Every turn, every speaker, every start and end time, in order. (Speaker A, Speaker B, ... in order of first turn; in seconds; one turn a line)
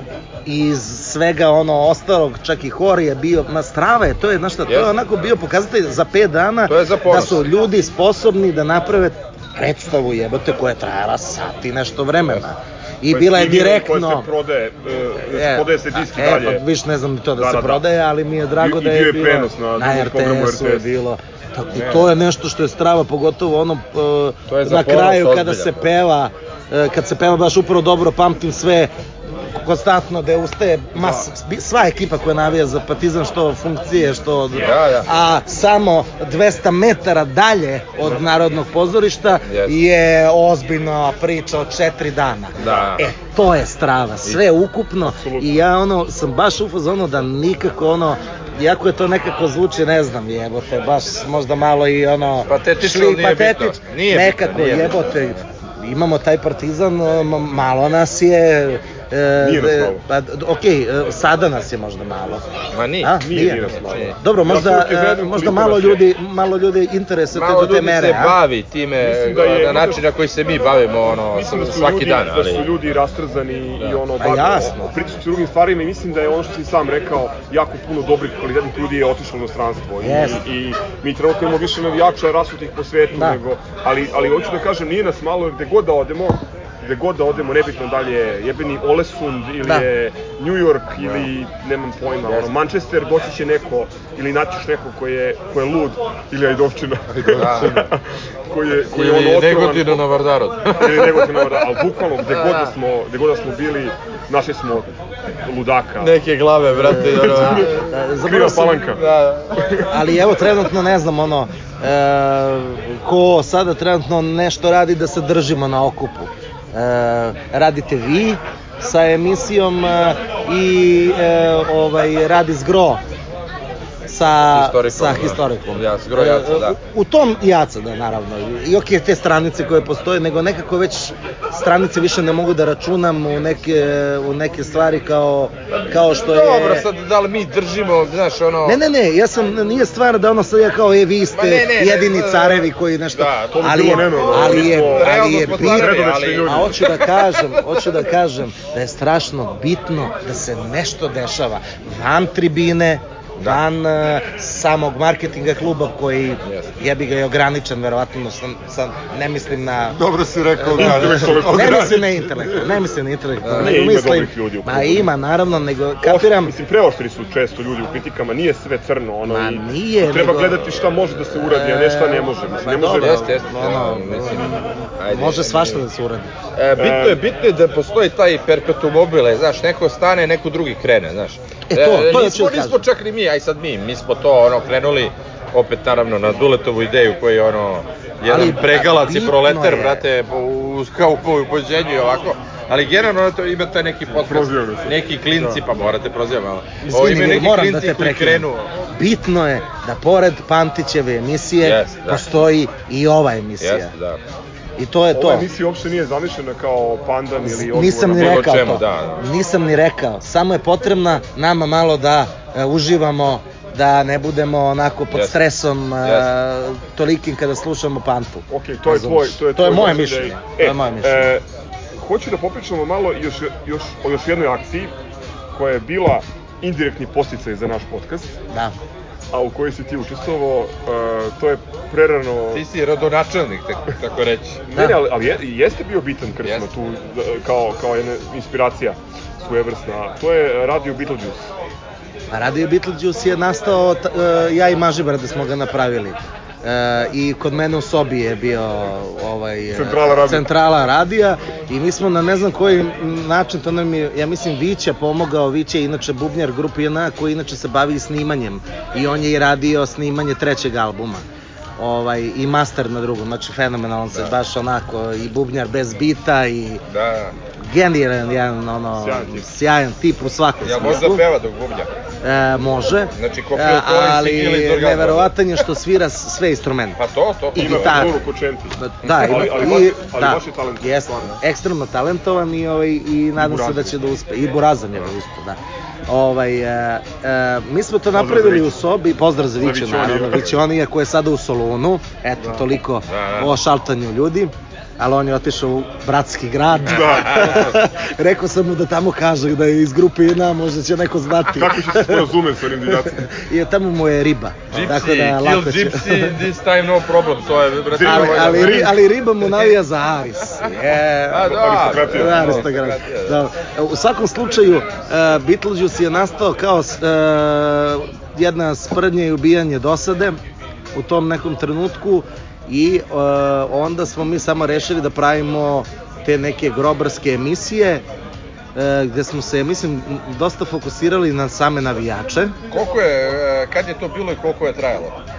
Speaker A: 0.4-14.3
Speaker B: 6.7-7.4
Speaker C: 13.1-16.6
Speaker A: 15.3-68.4
Speaker C: 17.4-17.8
Speaker C: 18.6-20.9
Speaker B: 21.7-22.1
Speaker B: 24.5-25.9
Speaker B: 34.5-35.1
Speaker B: 39.5-39.8
Speaker B: 42.6-43.0
Speaker C: 42.6-42.9
Speaker C: 45.0-45.6
Speaker B: 52.5-55.4
Speaker C: 59.4-60.0
Speaker B: 62.7-64.1
Speaker C: 63.2-66.0
Speaker B: 67.3-72.7
Speaker C: 69.0-70.1
Speaker C: 71.3-100.0
Speaker A: 74.2-74.9
Speaker A: 80.0-80.4
Speaker A: 83.1-83.4
Speaker B: 91.0-91.3
Speaker D: 97.2-97.9
Speaker B: 97.3-97.8
Speaker B: 98.9-101.5
Speaker C: 100.7-104.9
Speaker B: 102.2-102.7
Speaker C: 105.4-106.2
Speaker B: 106.0-107.8
Speaker A: 106.8-108.8
Speaker C: 106.9-109.0
Speaker B: 108.9-109.6
Speaker C: 109.5-109.9
Speaker A: 109.9-123.0
Speaker A: 124.0-136.8
Speaker B: 124.5-126.8
Speaker B: 135.7-138.8
Speaker A: 138.6-160.0
Speaker B: 141.3-147.1
Speaker C: 143.5-146.8
Speaker B: 156.4-156.7
Speaker D: 159.9-162.7
Speaker A: 160.6-166.5
Speaker C: 160.8-162.0
Speaker B: 163.4-163.8
Speaker C: 163.6-165.1
Speaker C: 166.0-173.3
Speaker A: 169.3-170.6
Speaker A: 171.3-176.3
Speaker B: 172.9-175.8
Speaker B: 176.5-198.7
Speaker C: 176.8-177.2
Speaker A: 181.7-182.8
Speaker A: 188.3-190.0
Speaker C: 194.1-194.9
Speaker A: 196.8-203.9
Speaker B: 201.6-202.2
Speaker B: 203.6-204.2
Speaker A: 204.8-205.5
Speaker C: 205.1-208.8
Speaker A: 207.4-221.3
Speaker B: 208.1-209.2
Speaker B: 215.1-215.4
Speaker B: 216.0-216.3
Speaker C: 218.5-221.4
Speaker C: 222.0-224.9
Speaker C: 225.5-228.3
Speaker C: 229.3-232.6
Speaker B: 232.5-234.6
Speaker C: 234.7-241.5
Speaker A: 242.3-261.2
Speaker C: 249.7-250.4
Speaker A: 261.8-266.8
Speaker B: 266.9-267.3
Speaker A: 267.5-271.2
Speaker C: 268.9-269.4
Speaker B: 270.6-271.9
Speaker A: 272.2-277.0
Speaker B: 273.1-275.3
Speaker B: 277.0-278.1
Speaker A: 277.5-278.2
Speaker C: 277.6-281.4
Speaker A: 278.8-302.3
Speaker B: 279.0-279.4
Speaker C: 283.4-284.0
Speaker C: 288.1-288.7
Speaker C: 289.5-290.6
Speaker B: 293.1-293.5
Speaker C: 296.8-297.6
Speaker B: 296.9-297.8
Speaker C: 301.5-303.2
Speaker A: 302.9-306.4
Speaker B: 304.7-308.9
Speaker C: 307.9-309.0
Speaker A: 308.0-320.4
Speaker B: 311.3-313.4
Speaker C: 311.4-312.7
Speaker A: 320.9-328.0
Speaker A: 328.7-332.5
Speaker B: 332.7-335.2